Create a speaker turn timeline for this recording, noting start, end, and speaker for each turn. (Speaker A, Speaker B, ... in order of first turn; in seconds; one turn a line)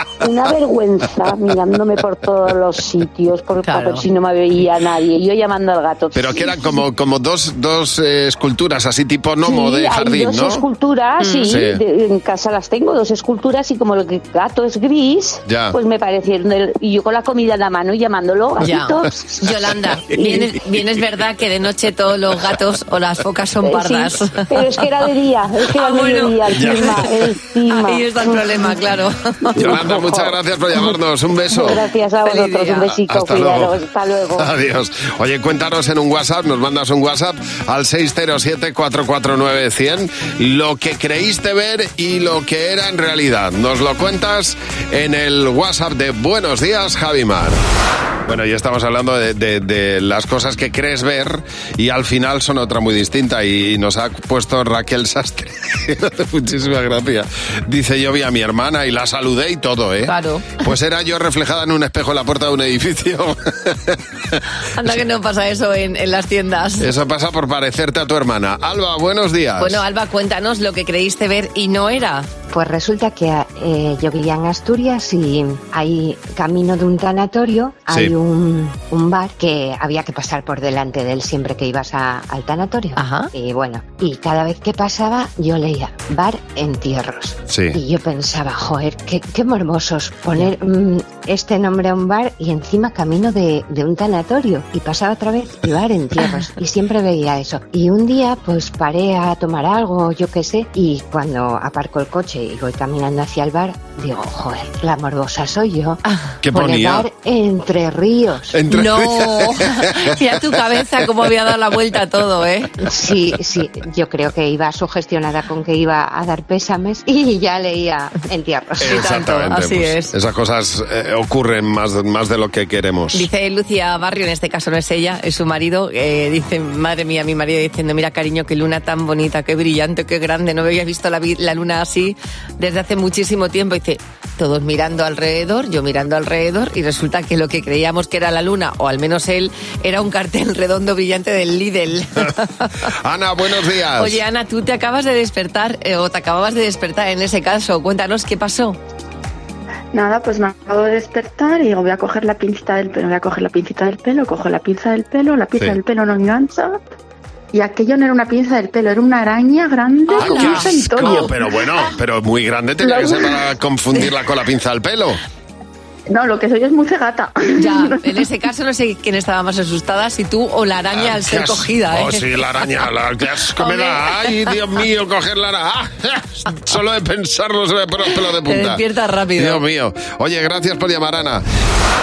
Speaker A: 0.2-6.7
Speaker B: 3.6-4.0
Speaker C: 6.2-10.6
Speaker A: 9.4-19.5
Speaker B: 11.2-11.6
Speaker C: 11.5-11.8
Speaker C: 15.5-15.8
Speaker B: 18.6-24.5
Speaker A: 20.1-20.5
Speaker A: 23.6-28.4
Speaker B: 25.7-27.1
Speaker C: 26.6-26.9
Speaker B: 27.7-29.6
Speaker C: 29.6-31.8
Speaker A: 29.6-30.4
Speaker A: 31.5-34.5
Speaker B: 32.2-32.9
Speaker C: 33.0-33.8
Speaker C: 34.4-47.6
Speaker C: 48.3-64.0
Speaker B: 60.1-60.6
Speaker B: 64.8-66.9
Speaker C: 66.8-69.8
Speaker B: 69.6-72.3
Speaker D: 72.5-108.6
Speaker B: 83.0-83.3
Speaker C: 87.5-87.8
Speaker C: 106.4-107.1
Speaker C: 108.5-109.9
Speaker B: 108.7-112.8
Speaker D: 112.8-119.1
Speaker C: 118.8-123.3
Speaker B: 118.8-120.1
Speaker B: 123.1-142.7
Speaker C: 143.0-144.2
Speaker B: 144.0-148.8
Speaker E: 149.9-156.8
Speaker E: 157.5-161.4
Speaker B: 160.1-161.2
Speaker C: 160.2-165.2
Speaker E: 162.8-163.4
Speaker E: 166.1-168.2
Speaker B: 167.6-172.2
Speaker C: 170.9-178.8
Speaker B: 173.6-174.2
Speaker B: 178.5-179.6
Speaker C: 179.4-181.4